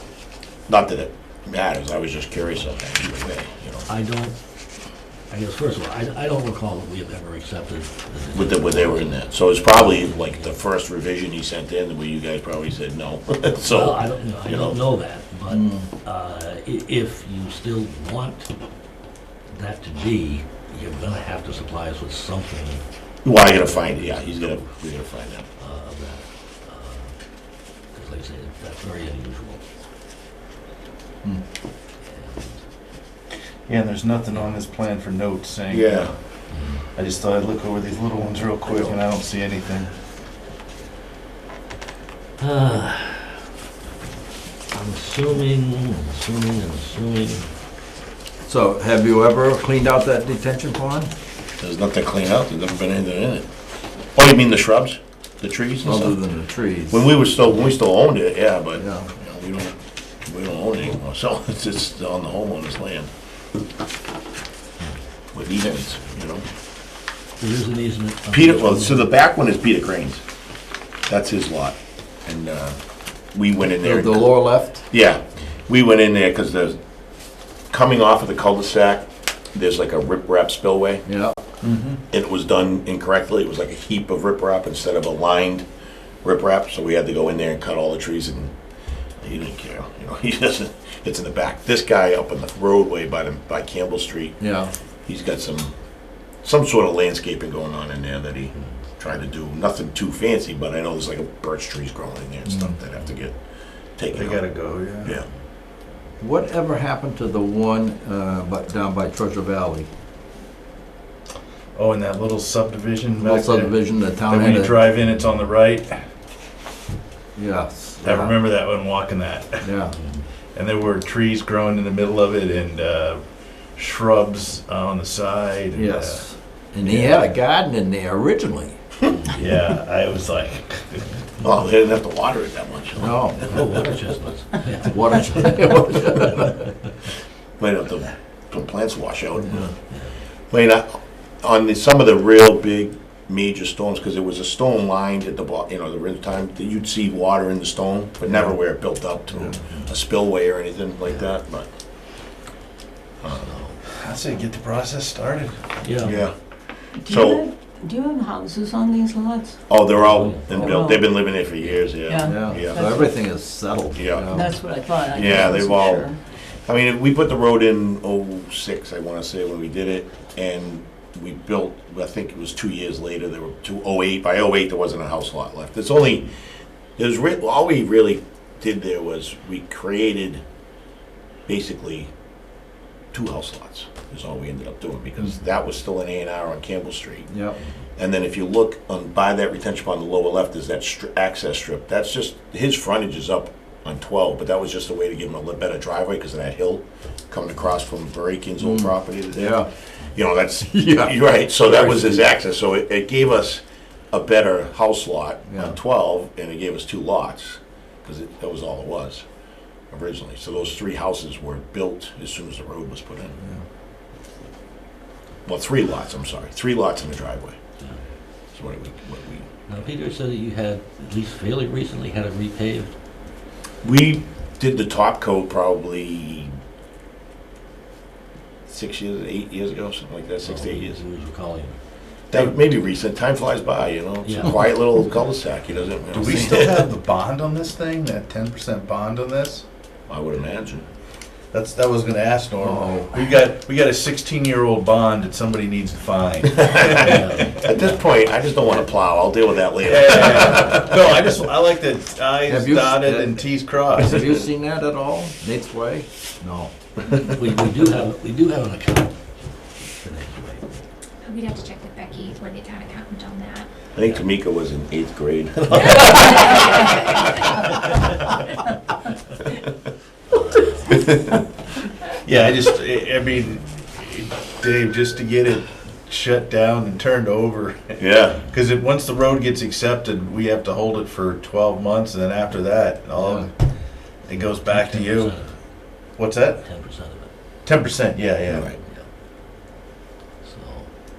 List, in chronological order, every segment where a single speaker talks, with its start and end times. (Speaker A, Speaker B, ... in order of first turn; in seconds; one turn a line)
Speaker A: 0.7-3.9
Speaker B: 3.9-4.3
Speaker B: 5.3-10.6
Speaker A: 8.3-14.8
Speaker B: 13.6-18.5
Speaker C: 15.5-15.9
Speaker B: 19.5-24.6
Speaker A: 23.2-25.4
Speaker B: 25.6-27.1
Speaker B: 27.9-29.6
Speaker B: 32.0-32.6
Speaker D: 33.7-36.1
Speaker A: 35.7-36.1
Speaker B: 36.5-36.8
Speaker D: 36.9-39.9
Speaker B: 42.4-43.4
Speaker B: 44.7-47.5
Speaker C: 48.5-51.1
Speaker A: 51.6-53.5
Speaker A: 54.1-56.3
Speaker C: 55.8-57.0
Speaker A: 56.9-63.1
Speaker C: 58.8-59.1
Speaker A: 65.3-66.4
Speaker B: 67.4-69.1
Speaker A: 68.3-70.2
Speaker A: 71.1-72.8
Speaker A: 73.3-76.8
Speaker C: 73.7-74.8
Speaker A: 77.7-81.0
Speaker C: 81.0-81.4
Speaker D: 81.6-82.0
Speaker A: 82.1-85.6
Speaker A: 86.2-88.5
Speaker A: 89.2-94.4
Speaker C: 94.4-94.7
Speaker A: 95.0-95.7
Speaker A: 96.4-103.3
Speaker A: 104.0-104.5
Speaker D: 104.1-105.2
Speaker C: 106.2-109.9
Speaker D: 111.8-116.0
Speaker C: 113.2-114.9
Speaker C: 117.3-118.3
Speaker D: 118.0-119.7
Speaker C: 119.6-119.9
Speaker B: 119.9-120.2
Speaker D: 120.5-123.2
Speaker D: 123.8-126.2
Speaker C: 125.7-128.8
Speaker D: 126.8-127.2
Speaker B: 129.1-129.4
Speaker D: 129.3-131.1
Speaker A: 131.4-133.8
Speaker C: 133.0-133.4
Speaker B: 133.4-136.7
Speaker C: 134.8-136.7
Speaker A: 137.6-139.7
Speaker A: 140.5-151.7
Speaker B: 149.6-149.9
Speaker A: 153.2-153.6
Speaker B: 153.4-153.8
Speaker D: 153.9-155.6
Speaker B: 155.8-156.2
Speaker A: 156.0-156.3
Speaker E: 157.0-159.6
Speaker A: 157.0-157.5
Speaker A: 159.7-163.0
Speaker B: 160.0-160.6
Speaker C: 160.5-160.8
Speaker E: 160.7-161.1
Speaker E: 162.0-163.1
Speaker C: 162.2-164.6
Speaker A: 163.9-164.4
Speaker E: 164.3-166.2
Speaker A: 165.0-176.3
Speaker A: 177.0-180.4
Speaker A: 181.5-182.1
Speaker A: 183.1-187.3
Speaker C: 187.3-187.6
Speaker A: 188.0-209.2
Speaker C: 198.6-199.7
Speaker C: 200.6-202.2
Speaker A: 209.9-213.4
Speaker A: 215.4-217.6
Speaker A: 218.5-219.5
Speaker B: 219.7-222.9
Speaker A: 223.8-226.5
Speaker A: 228.7-231.0
Speaker B: 230.4-231.8
Speaker A: 232.3-236.8
Speaker B: 234.2-234.8
Speaker D: 236.1-239.6
Speaker A: 240.1-240.8
Speaker D: 241.5-247.6
Speaker C: 242.6-243.2
Speaker A: 246.5-251.0
Speaker B: 247.0-248.0
Speaker D: 249.8-254.3
Speaker C: 252.5-256.7
Speaker B: 257.2-259.2
Speaker B: 259.8-260.8
Speaker F: 261.2-263.7
Speaker A: 263.9-266.9
Speaker B: 264.0-264.2
Speaker F: 265.8-267.5
Speaker B: 270.3-271.1
Speaker A: 271.0-271.3
Speaker D: 272.2-283.5
Speaker A: 278.0-278.4
Speaker D: 284.2-285.4
Speaker B: 284.6-285.5
Speaker D: 286.2-286.6
Speaker B: 286.6-287.3
Speaker D: 287.6-288.7
Speaker A: 288.5-288.8
Speaker B: 290.4-290.9